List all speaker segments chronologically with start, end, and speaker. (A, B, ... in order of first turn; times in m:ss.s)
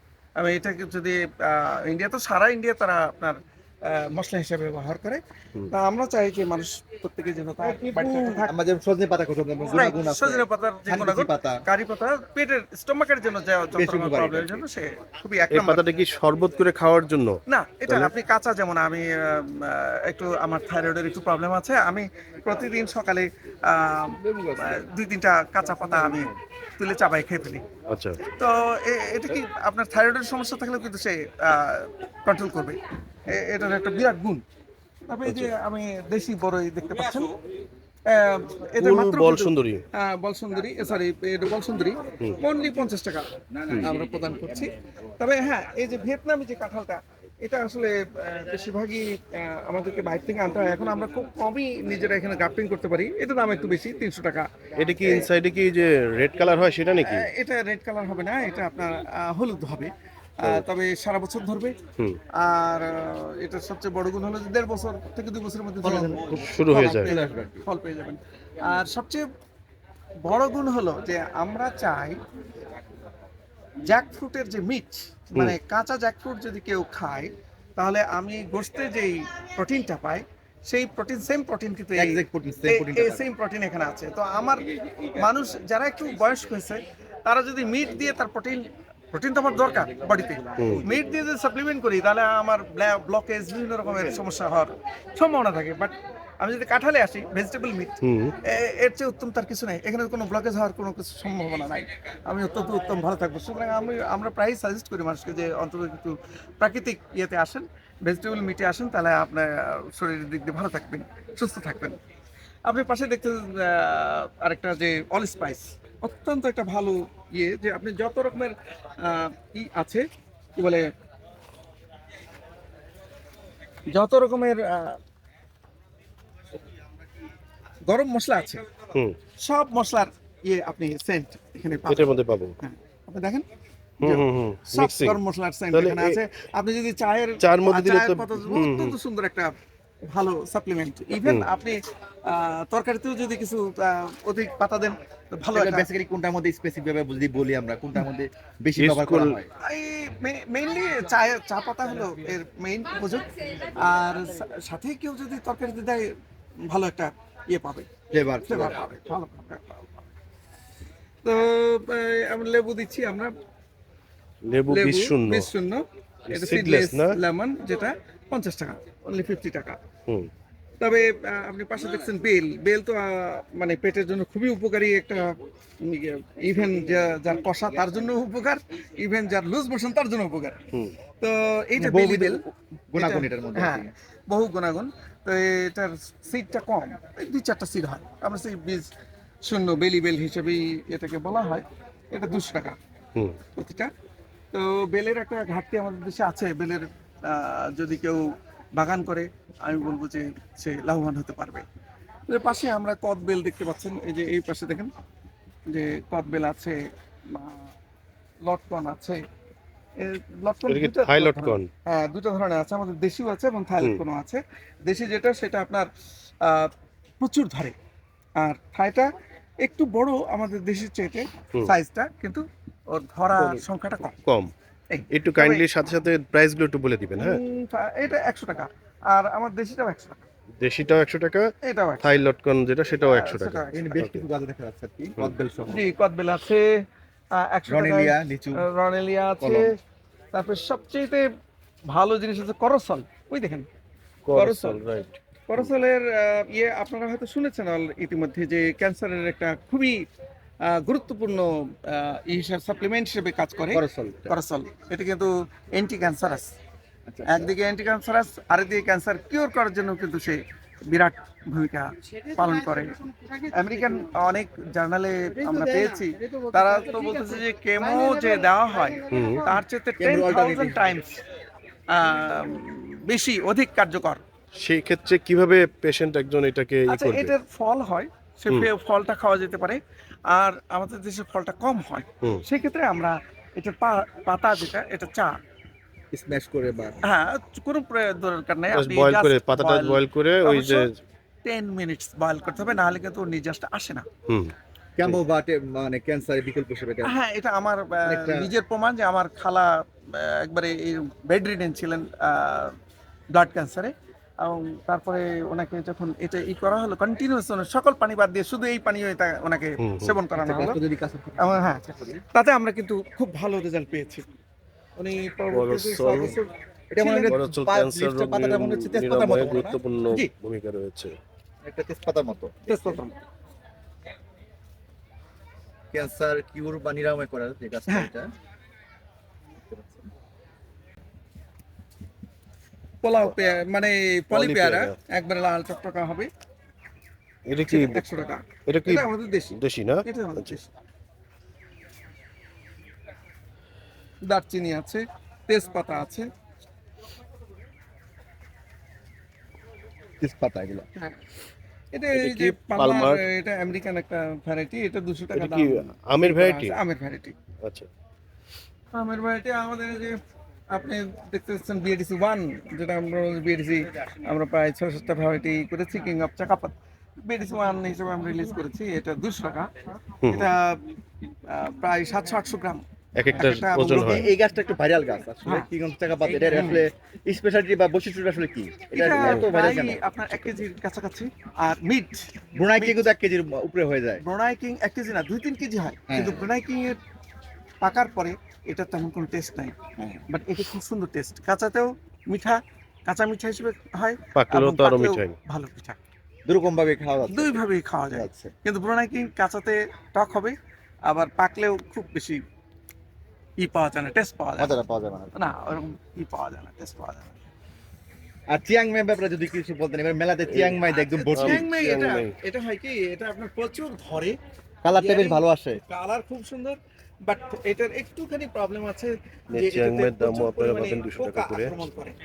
0:00.4-0:08.5 A
0:07.7-0:11.6 B
0:09.8-0:15.8 A
0:13.8-0:14.6 B
0:15.5-0:18.1 C
0:17.5-0:27.6 A
0:24.2-0:24.8 B
0:26.0-0:26.4 B
0:27.9-0:28.2 C
0:28.2-0:34.4 A
0:35.1-0:37.4 A
0:35.2-0:35.5 C
0:38.1-0:55.3 A
0:38.8-0:39.8 C
0:43.5-0:44.3 B
0:54.8-0:57.3 C
0:57.0-1:01.8 A
1:02.3-1:09.3 A
1:05.8-1:07.6 B
1:06.4-1:07.1 C
1:10.2-1:12.2 A
1:13.9-1:52.0 A
1:21.9-1:23.2 B
1:30.6-1:30.8 C
1:30.8-1:31.1 B
1:38.0-1:38.3 C
1:52.6-2:00.9 A
2:03.9-2:05.0 A
2:07.9-2:08.6 A
2:09.4-2:13.4 A
2:11.9-2:12.6 C
2:14.0-2:15.2 C
2:14.0-2:19.5 A
2:15.7-2:16.2 C
2:17.4-2:19.0 C
2:20.1-2:25.9 A
2:21.2-2:21.5 C
2:25.5-2:29.5 B
2:28.8-2:29.4 C
2:29.6-2:37.9 A
2:38.1-2:38.8 B
2:38.4-2:40.0 A
2:41.2-2:43.3 A
2:44.4-2:45.5 C
2:44.7-2:49.8 A
2:46.3-2:47.2 C
2:50.8-3:00.6 A
3:01.2-3:08.9 A
3:01.8-3:03.9 B
3:09.4-3:12.8 A
3:13.6-3:13.9 A
3:14.5-3:21.6 A
3:22.3-3:24.9 A
3:25.7-3:27.7 A
3:28.4-3:29.2 A
3:30.0-3:35.9 A
3:30.7-3:31.7 C
3:36.4-3:37.8 A
3:38.4-3:44.2 A
3:43.4-3:43.6 C
3:44.2-3:44.5 C
3:44.9-3:45.6 A
3:45.1-3:47.4 C
3:47.2-3:50.2 A
3:50.6-3:54.2 C
3:51.6-3:52.1 A
3:53.1-3:53.9 A
3:53.7-3:55.9 B
3:55.7-3:59.8 A
3:57.7-3:58.6 B
3:59.4-3:59.7 B
4:00.3-4:01.2 A
4:01.9-4:03.7 A
4:04.2-4:05.7 C
4:04.3-4:04.8 A
4:05.5-4:10.0 A
4:10.6-4:16.6 A
4:13.7-4:14.4 B
4:17.1-4:17.5 B
4:17.2-4:31.2 A
4:29.1-4:29.4 C
4:30.0-4:30.9 B
4:31.9-4:34.2 A
4:34.6-4:37.3 C
4:36.9-4:45.4 A
4:46.1-4:47.0 B
4:47.0-4:50.9 A
4:48.7-4:51.0 C
4:51.4-4:54.1 A
4:54.3-4:54.5 C
4:55.0-4:57.2 B
4:57.0-5:02.8 A
4:58.1-4:58.5 B
5:03.3-5:10.8 A
5:09.8-5:10.2 C
5:10.4-5:12.2 B
5:11.4-5:14.3 A
5:15.0-5:17.3 A
5:15.5-5:16.4 C
5:16.9-5:19.8 B
5:17.3-5:21.1 C
5:21.6-5:23.0 B
5:22.7-5:23.1 A
5:25.9-5:28.3 B
5:29.6-5:30.1 B
5:33.0-5:36.3 A
5:34.3-5:34.9 C
5:37.5-5:38.1 C
5:37.6-5:40.7 A
5:38.6-5:40.6 C
5:44.2-5:46.3 A
5:50.2-5:50.9 B
5:51.9-5:57.4 A
5:52.1-5:53.2 C
5:55.3-5:56.8 C
5:57.6-5:57.9 C
5:58.9-6:00.2 A
6:00.7-6:09.7 A
6:10.2-6:10.5 C
6:10.3-6:11.0 A
6:11.5-6:12.8 A
6:13.1-6:14.3 C
6:13.4-6:14.3 A
6:13.9-6:20.5 B
6:16.2-6:16.9 A
6:18.9-6:23.1 A
6:19.2-6:19.4 C
6:22.5-6:24.2 B
6:24.2-6:27.0 A
6:26.1-6:26.5 B
6:27.8-6:29.8 A
6:30.0-6:30.2 B
6:30.3-6:36.0 A
6:34.4-6:35.4 C
6:36.5-6:38.5 B
6:37.3-6:42.4 A
6:43.6-6:44.8 A
6:44.6-6:45.4 B
6:45.3-6:47.5 A
6:48.5-6:51.7 B
6:50.5-6:50.8 C
6:51.2-6:54.4 A
6:51.3-6:52.3 C
6:54.8-6:55.8 B
6:55.0-7:02.2 A
6:59.5-7:01.7 C